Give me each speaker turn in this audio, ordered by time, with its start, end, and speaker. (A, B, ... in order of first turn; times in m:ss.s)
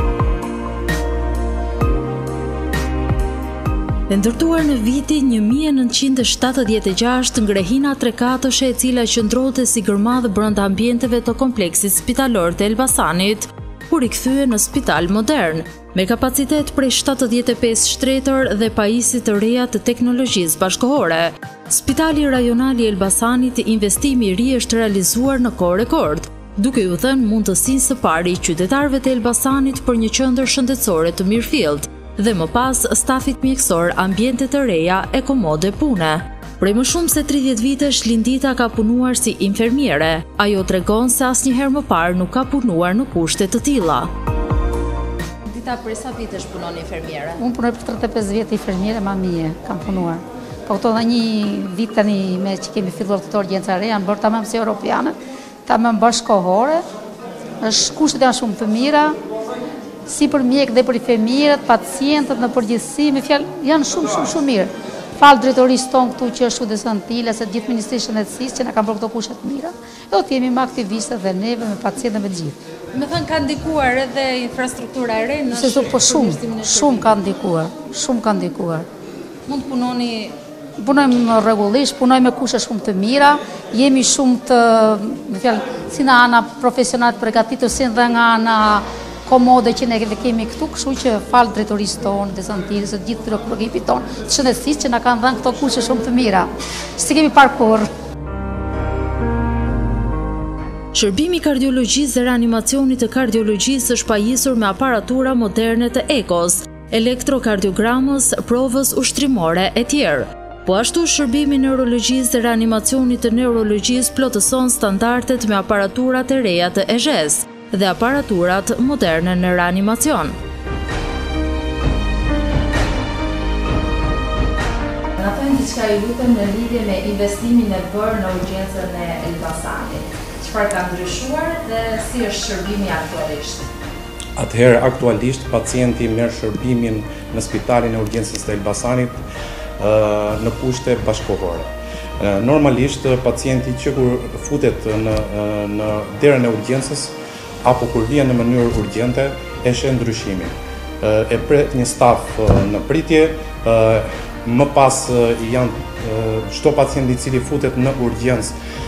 0:04.1-0:44.1 A
0:45.4-0:47.4 A
0:47.4-0:56.8 B
0:57.6-0:59.1 B
1:00.1-1:12.6 B
1:12.9-1:17.1 A
1:15.5-1:18.8 B
1:19.5-1:20.3 A
1:20.8-1:37.9 B
1:40.9-2:00.3 A
2:05.2-2:13.7 A
2:14.4-2:19.2 C
2:19.8-2:21.7 C
2:22.2-2:38.5 C